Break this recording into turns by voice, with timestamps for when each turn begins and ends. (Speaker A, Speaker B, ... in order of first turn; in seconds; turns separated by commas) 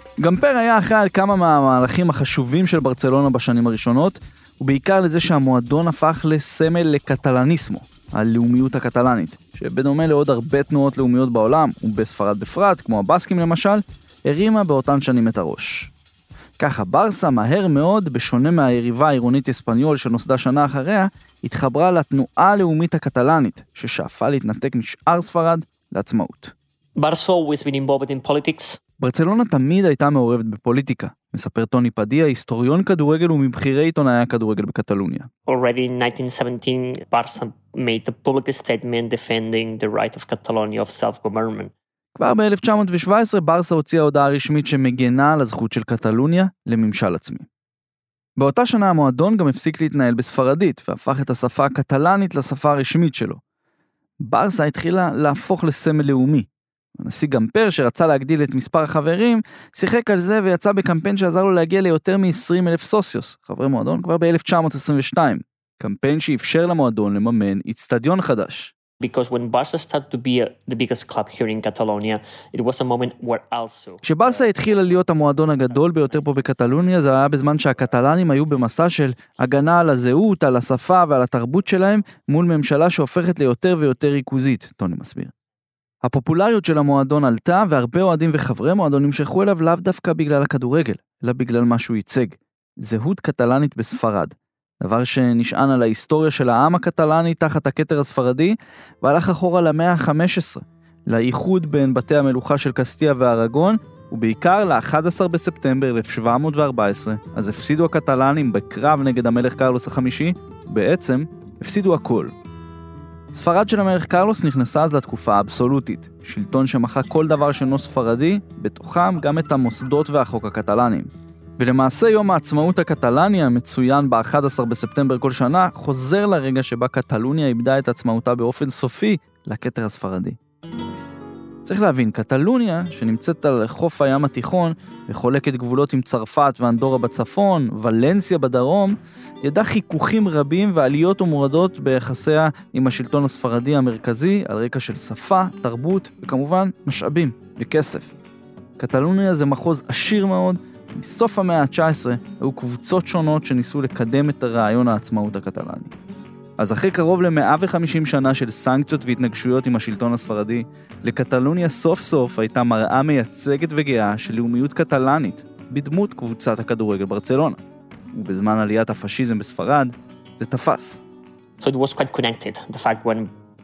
Speaker A: 0.2-15.9, Speaker A: 16.6-26.5, Speaker B: 27.0-28.8, Speaker A: 29.0-35.3, Speaker B: 35.5-41.7, Speaker A: 42.1-47.5, Speaker A: 48.4-53.4, Speaker A: 54.2-68.7, Speaker B: 69.0-76.9, Speaker A: 74.0-85.3, Speaker A: 86.0-112.3, Speaker A: 113.3-130.4, Speaker A: 131.6-148.1, Speaker A: 148.8-155.9, Speaker A: 156.6-167.6, Speaker A: 168.1-171.0, Speaker B: 171.6-173.3